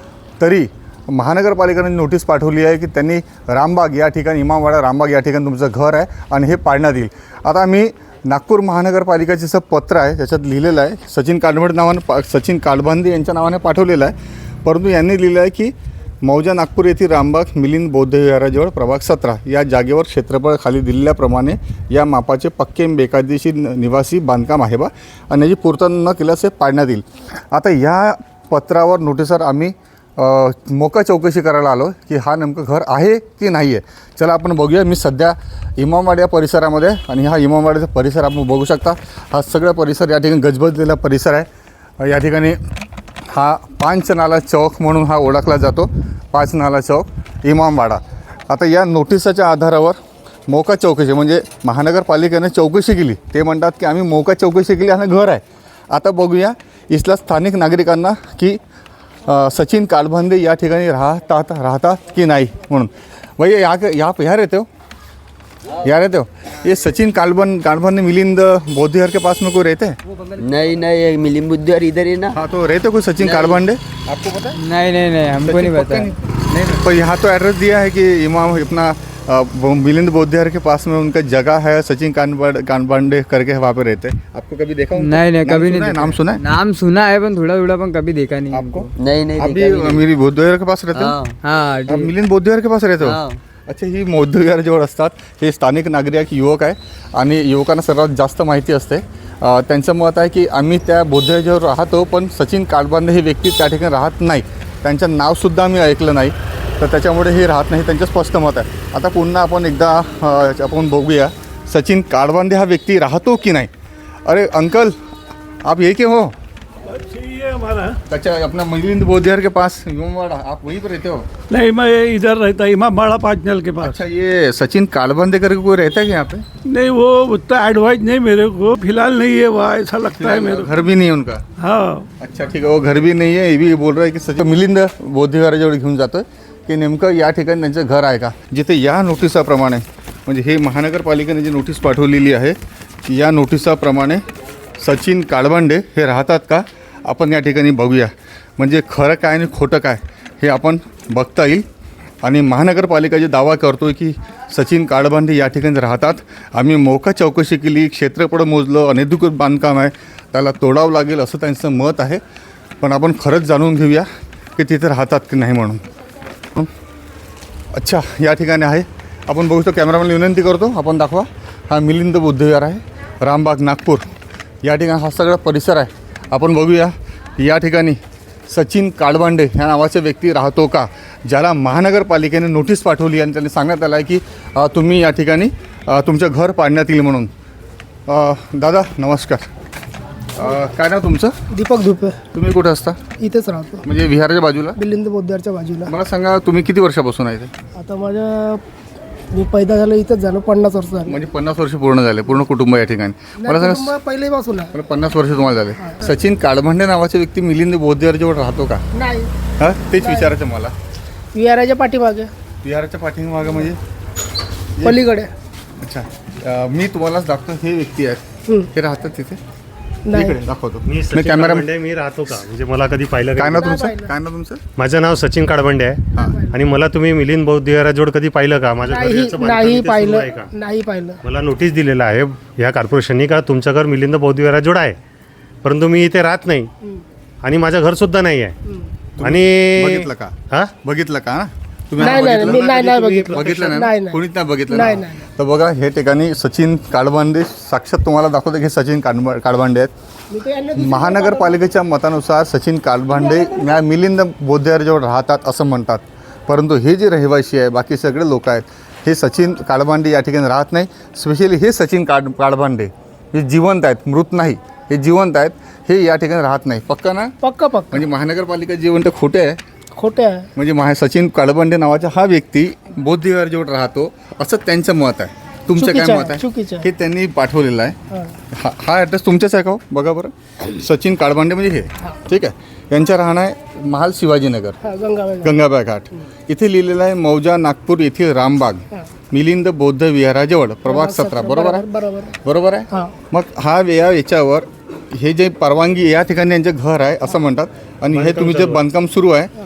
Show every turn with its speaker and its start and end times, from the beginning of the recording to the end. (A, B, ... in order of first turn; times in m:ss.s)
0:00.4-0:41.5 A
0:42.0-0:42.6 A
0:43.3-0:50.0 A
0:50.5-0:58.6 A
0:59.2-1:04.7 A
1:05.8-1:10.0 A
1:10.4-1:12.3 B
1:12.3-1:14.6 A
1:13.2-1:13.6 B
1:14.5-1:16.8 C
1:15.4-1:26.4 A
1:24.9-1:28.8 C
1:28.5-1:31.2 A
1:29.0-1:30.0 B
1:30.9-1:31.4 B
1:31.4-1:32.1 C
1:31.9-1:53.7 A
1:33.0-1:33.4 B
1:54.2-1:54.9 A
1:55.6-1:56.3 A
1:56.9-1:58.0 D
1:58.1-2:01.3 A
2:01.5-2:04.0 D
2:03.8-2:06.4 A
2:06.6-2:10.8 D
2:10.1-2:11.4 A
2:11.6-2:12.1 D
2:12.2-2:24.2 A
2:24.8-2:31.6 A
2:32.2-2:42.2 A
2:42.8-2:45.8 A
2:47.7-2:54.1 A
2:54.6-3:07.3 A
3:08.1-3:09.4 A
3:10.4-3:11.3 A
3:11.5-3:12.2 E
3:12.3-3:13.0 A
3:13.2-3:13.9 E
3:13.8-3:14.8 A
3:14.8-3:15.9 E
3:15.8-3:17.5 A
3:17.7-3:18.6 E
3:19.3-3:21.2 E
3:21.0-3:23.9 A
3:23.4-3:24.7 E
3:24.7-3:28.8 A
3:28.9-3:29.3 E
3:29.6-3:30.7 A
3:30.0-3:30.3 E
3:31.3-3:32.3 E
3:32.6-3:33.8 A
3:34.8-3:35.0 A
3:34.8-3:35.3 E
3:35.8-3:39.4 A
3:40.1-3:40.4 E
3:40.1-3:41.6 A
3:40.8-3:43.7 F
3:43.4-3:44.6 A
3:43.6-3:44.1 E
3:44.8-3:50.5 F
3:46.1-3:46.6 E
3:48.8-3:51.2 E
3:51.2-3:55.0 F
3:55.6-3:56.7 F
3:57.4-3:58.6 F
3:59.2-4:09.9 A
3:59.2-4:00.7 F
4:02.0-4:05.2 E
4:02.0-4:03.8 F
4:10.3-4:11.6 E
4:10.8-4:27.3 A
4:13.1-4:13.7 E
4:27.4-4:28.0 E
4:27.9-4:29.6 A
4:30.0-4:30.5 E
4:30.6-4:38.0 A
4:35.8-4:36.9 E
4:38.5-4:44.8 A
4:44.8-4:45.6 E
4:45.4-4:51.8 A
4:50.8-4:52.4 E
4:52.4-4:59.5 A
4:58.1-4:58.8 F